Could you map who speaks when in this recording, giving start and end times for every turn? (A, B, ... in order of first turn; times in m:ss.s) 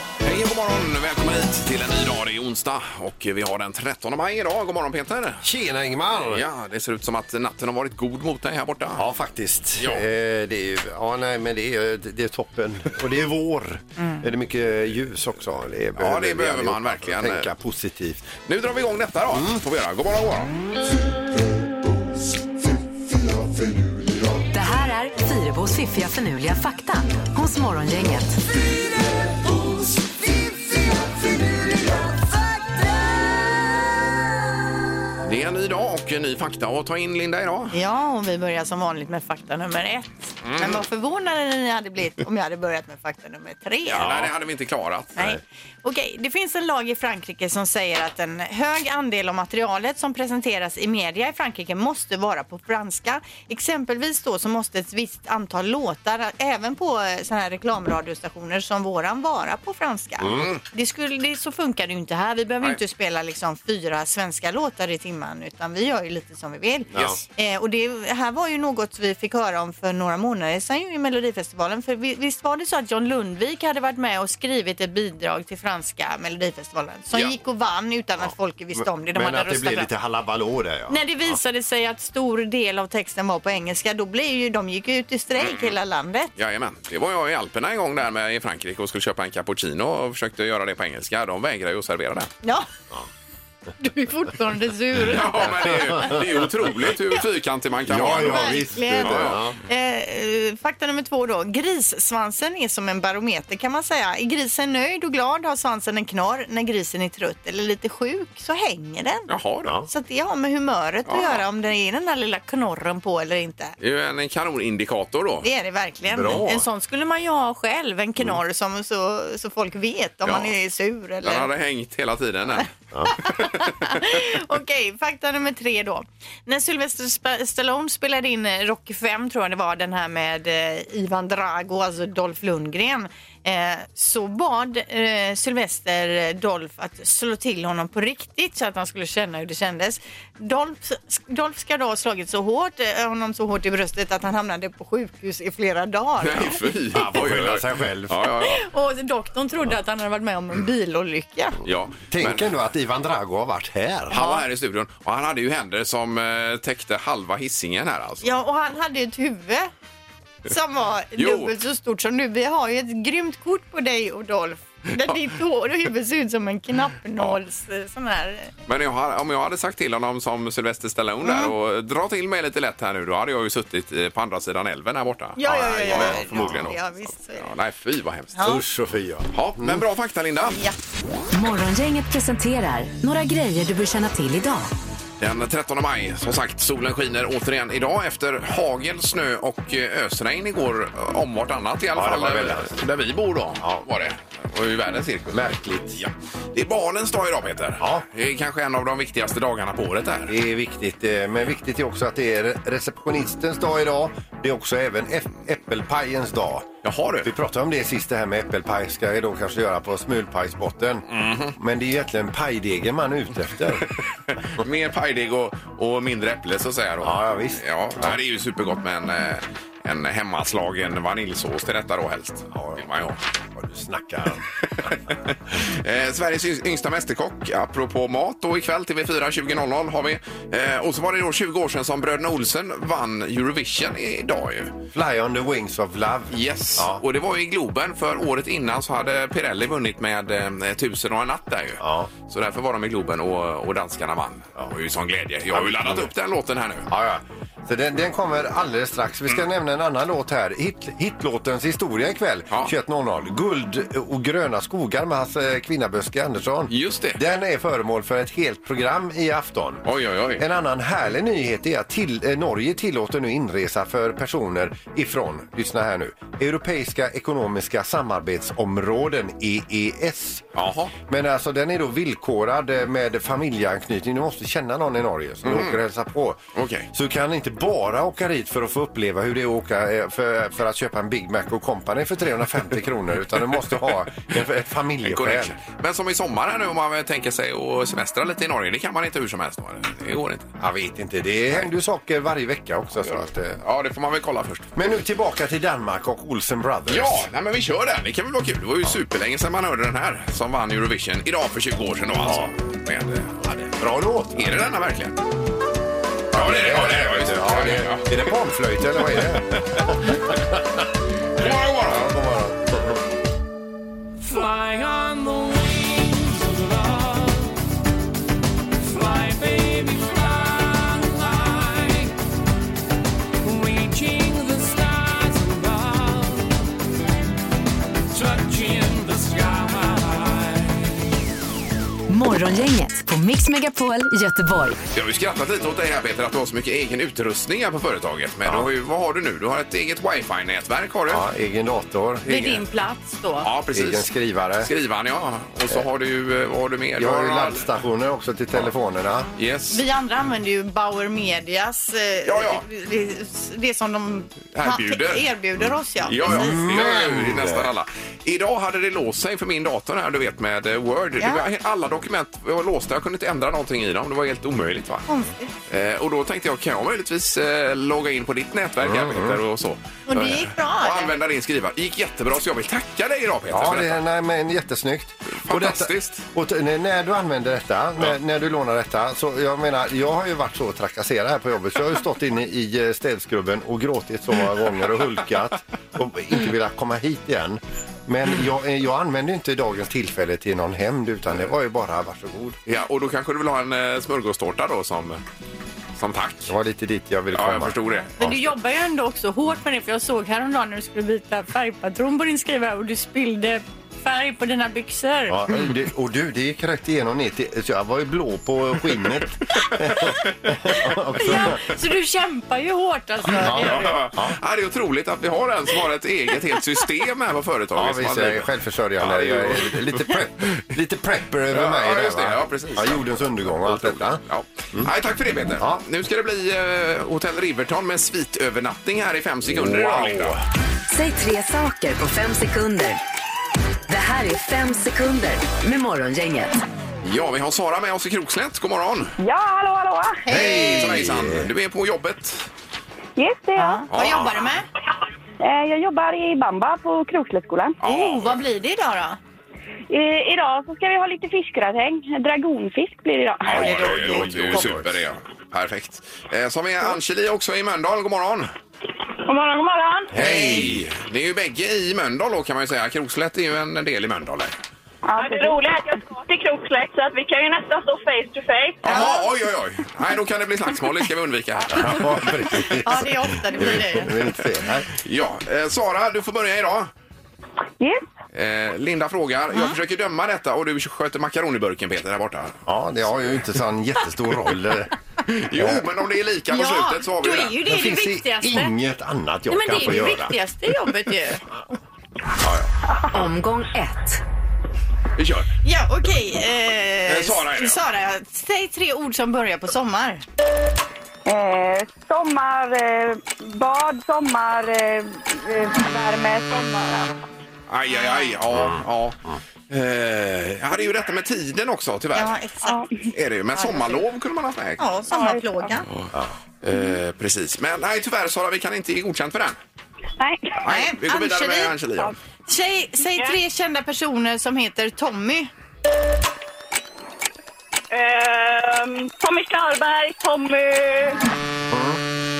0:00.2-0:05.4 A
0:05.4-0:06.4 B
0:06.2-0:09.0 A
0:09.0-0:18.3 B
0:09.8-0:10.0 A
0:14.0-0:14.3 C
0:16.0-0:17.5 A
0:18.4-0:20.5 A
0:19.3-0:19.6 B
0:24.5-0:28.4 D
0:35.2-0:37.8 A
0:37.7-0:44.1 C
0:40.4-0:40.8 A
0:43.8-0:45.4 A
0:44.0-0:44.3 B
0:45.2-1:19.9 C
1:00.2-1:00.5 B
1:00.3-1:00.6 A
1:06.9-1:07.2 B
1:17.1-1:17.4 A
1:18.8-1:21.0 B
1:20.9-1:26.3 C
1:25.4-1:25.8 A
1:26.4-1:32.3 A
1:33.8-1:36.1 C
1:35.0-1:39.4 A
1:35.9-1:36.2 B
1:37.9-1:39.6 B
1:38.0-1:49.3 C
1:49.3-1:49.8 A
1:49.9-1:53.7 C
1:51.1-1:51.4 A
1:53.8-1:55.5 A
1:55.4-2:01.5 C
1:56.1-1:56.6 B
2:00.2-2:00.5 A
2:01.2-2:02.7 A
2:02.6-2:27.0 C
2:03.3-2:03.6 A
2:26.2-2:28.6 A
2:26.9-2:28.2 B
2:28.4-2:31.6 C
2:31.6-2:32.5 A
2:32.1-2:34.2 B
2:34.1-2:38.3 A
2:34.1-2:34.4 C
2:38.2-2:39.7 C
2:40.5-2:48.5 C
2:41.2-2:41.5 A
2:48.7-2:56.8 A
2:51.2-2:51.5 C
2:55.4-2:57.5 C
2:55.5-2:56.6 B
2:57.4-2:58.5 A
2:58.4-2:58.6 C
2:58.4-2:59.8 B
2:59.3-3:00.6 A
3:00.4-3:00.8 C
3:01.3-3:04.7 D
3:05.2-3:20.4 A
3:11.9-3:12.8 B
3:13.6-3:13.8 B
3:15.3-3:16.0 B
3:17.8-3:18.1 B
3:20.3-3:26.7 B
3:26.8-3:27.3 A
3:27.2-3:33.9 B
3:31.1-3:31.6 A
3:34.3-3:43.2 A
3:37.0-3:38.2 B
3:42.5-3:42.8 B
3:43.6-3:44.9 B
3:45.1-3:54.8 A
3:54.9-3:57.0 B
3:56.3-4:06.9 A
4:01.8-4:02.1 B
4:05.5-4:06.1 B
4:06.9-4:19.8 B
4:16.7-4:17.2 A
4:19.9-4:20.4 A
4:20.4-4:30.4 B
4:30.6-4:30.9 A
4:31.1-4:36.4 B
4:35.4-4:35.8 A
4:36.6-4:36.9 A
4:36.9-4:45.6 B
4:45.0-4:50.5 A
4:50.6-4:53.6 B
4:53.0-4:54.8 A
4:54.8-4:57.3 B
4:56.9-5:03.3 A
5:02.2-5:02.5 B
5:03.4-5:04.5 B
5:04.3-5:05.2 A
5:06.3-5:10.8 B
5:06.3-5:08.3 A
5:11.4-5:12.1 A
5:11.8-5:13.0 B
5:14.4-5:16.3 E
5:19.0-5:22.1 E
5:23.5-5:26.3 E
5:28.2-5:30.4 E
5:32.1-5:34.8 D
5:34.9-5:41.2 A
5:41.1-5:42.6 B
5:42.3-5:43.5 C
5:43.4-5:44.1 A
5:43.7-5:44.7 B
5:44.6-5:47.7 A
5:47.0-5:49.3 B
5:49.4-5:49.8 A
5:49.7-5:56.7 C
5:52.2-5:52.6 A
5:54.5-5:55.3 A
5:56.0-6:05.0 A
5:56.1-5:57.7 B
6:01.2-6:01.5 C
6:05.1-6:05.5 C
6:05.7-6:14.0 A
6:08.8-6:09.4 B
6:10.1-6:11.1 C
6:13.5-6:32.6 B
6:15.3-6:16.2 A
6:32.7-6:35.2 A
6:36.0-6:36.5 A
6:36.5-6:38.4 B
6:37.3-6:38.1 A
6:38.2-6:45.5 C
6:45.3-6:51.6 B
6:51.2-6:54.1 C
6:53.3-6:54.4 B
6:53.4-6:58.5 A
6:57.8-7:04.2 B
6:59.0-7:00.1 A
7:01.5-7:10.4 A
7:05.6-7:05.8 B
7:09.4-7:10.4 B
7:10.9-7:13.0 D
7:13.9-7:16.6 D
7:17.0-7:19.1 A
7:19.2-7:20.2 F
7:20.3-7:21.1 C
7:20.3-7:21.5 B
7:20.3-7:22.5 A
7:23.2-7:23.8 F
7:23.6-7:24.7 C
7:23.9-7:24.3 A
7:25.4-7:27.8 F
7:27.8-7:28.4 A
7:27.8-7:29.2 C
7:29.9-7:33.6 F
7:33.5-7:38.5 A
7:33.5-7:34.9 C
7:33.5-7:34.9 B
7:39.3-7:40.2 F
7:40.1-7:40.9 B
7:40.2-7:44.5 A
7:40.2-7:40.6 C
7:45.0-7:49.2 F
7:48.8-7:52.8 A
7:51.7-7:54.9 B
7:52.8-7:54.2 C
7:54.9-7:56.9 A
7:58.3-8:02.6 A
8:02.7-8:04.9 B
8:05.3-8:07.6 A
8:05.5-8:05.8 B
8:06.5-8:08.7 C
8:07.7-8:10.4 B
8:09.5-8:11.4 C
8:13.1-8:14.2 D
8:15.2-8:15.5 A
8:15.6-8:20.2 C
8:17.1-8:17.8 A
8:21.2-8:27.1 F
8:27.7-8:32.4 A
8:27.9-8:28.4 C
8:32.1-8:32.8 C
8:32.6-8:33.0 F
8:33.1-8:34.8 A
8:33.6-8:34.1 C
8:34.8-8:35.9 C
8:35.1-8:35.4 F
8:36.6-8:39.6 A
8:40.2-8:40.6 F
8:40.6-8:42.1 A
8:40.6-8:41.8 C
8:42.5-8:45.5 C
8:47.9-8:51.2 F
8:51.7-8:52.0 B